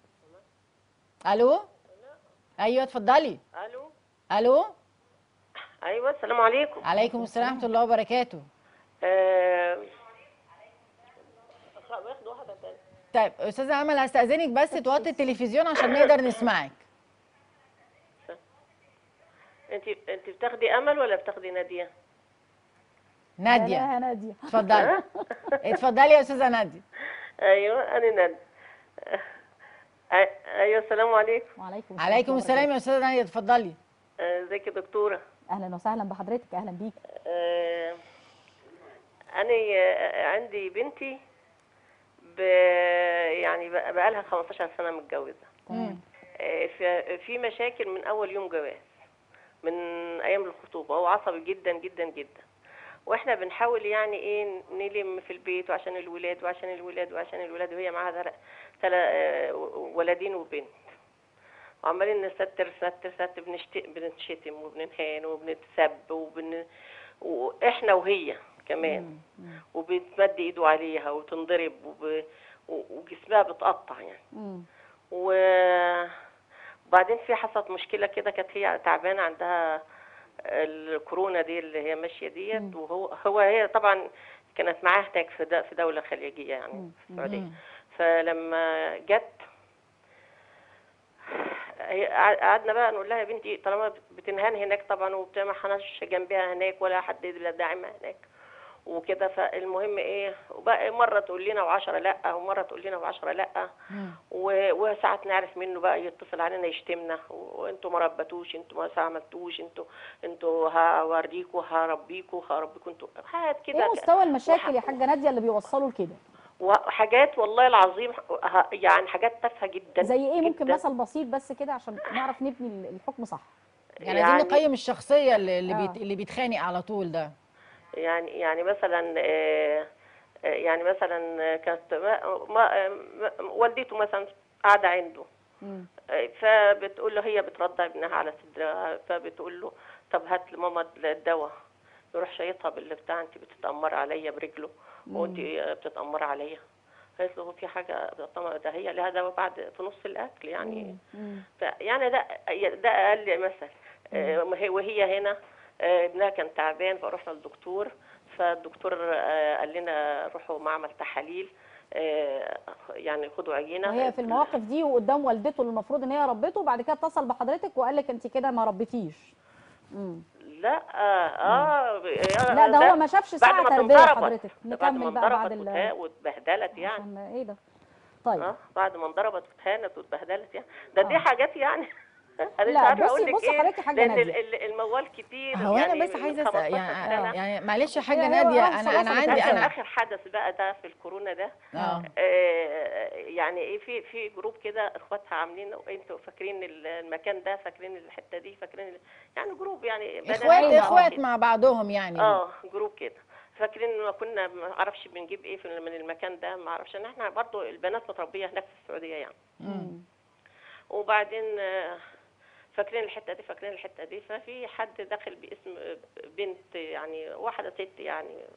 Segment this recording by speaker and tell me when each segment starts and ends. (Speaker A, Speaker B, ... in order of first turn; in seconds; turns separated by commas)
Speaker A: 1.2-1.7, Speaker A: 2.6-3.4, Speaker B: 3.5-3.9, Speaker A: 4.3-4.7, Speaker B: 5.8-6.8, Speaker A: 6.8-8.4, Speaker C: 7.0-7.6, Speaker B: 9.0-10.0, Speaker B: 11.7-12.8, Speaker A: 13.1-16.8, Speaker C: 14.7-15.1, Speaker B: 19.7-21.9, Speaker A: 23.4-23.9, Speaker C: 23.5-25.2, Speaker A: 24.5-25.0, Speaker B: 24.7-25.6, Speaker A: 25.6-26.8, Speaker B: 27.4-28.4, Speaker B: 29.0-29.3, Speaker B: 30.1-31.5, Speaker C: 31.6-32.7, Speaker A: 32.0-33.8, Speaker B: 34.2-35.2, Speaker C: 35.5-37.0, Speaker B: 37.1-38.0, Speaker B: 39.3-41.1, Speaker B: 42.2-45.5, Speaker C: 45.7-46.0, Speaker A: 45.7-46.0, Speaker B: 46.4-48.9, Speaker B: 49.6-52.4, Speaker B: 53.1-60.7, Speaker B: 61.8-66.6, Speaker B: 67.2-69.0, Speaker C: 68.8-69.6, Speaker B: 69.7-74.2, Speaker C: 74.3-74.7, Speaker B: 75.1-76.1, Speaker B: 76.9-79.8, Speaker B: 80.4-84.0, Speaker B: 84.5-89.3, Speaker C: 86.7-87.3, Speaker A: 87.2-87.5, Speaker B: 91.2-98.2, Speaker B: 98.9-103.7, Speaker A: 103.9-104.2, Speaker B: 104.3-115.0, Speaker C: 113.7-116.2, Speaker B: 116.6-120.8, Speaker C: 120.0-123.5, Speaker A: 124.0-127.3, Speaker B: 124.0-124.6, Speaker C: 125.7-126.0, Speaker B: 128.0-129.9, Speaker B: 130.4-135.2, Speaker C: 135.6-135.9, Speaker B: 136.1-141.5, Speaker B: 142.1-146.6, Speaker C: 145.1-145.4, Speaker B: 147.2-150.9, Speaker C: 150.6-151.4, Speaker B: 151.6-164.5, Speaker C: 163.8-169.3, Speaker C: 169.9-170.2, Speaker B: 170.5-177.0, Speaker C: 171.5-171.7, Speaker C: 172.5-175.9, Speaker C: 176.7-177.6, Speaker C: 178.2-178.5, Speaker B: 178.4-181.9, Speaker B: 182.4-187.4, Speaker C: 182.7-184.3, Speaker A: 185.5-189.7, Speaker C: 188.1-189.7, Speaker B: 188.9-191.5, Speaker A: 191.7-192.1, Speaker B: 192.2-201.2, Speaker A: 200.3-202.4, Speaker C: 200.5-201.1, Speaker B: 202.2-209.4, Speaker A: 209.6-209.9, Speaker C: 209.6-210.0, Speaker B: 210.9-212.0, Speaker B: 212.7-218.4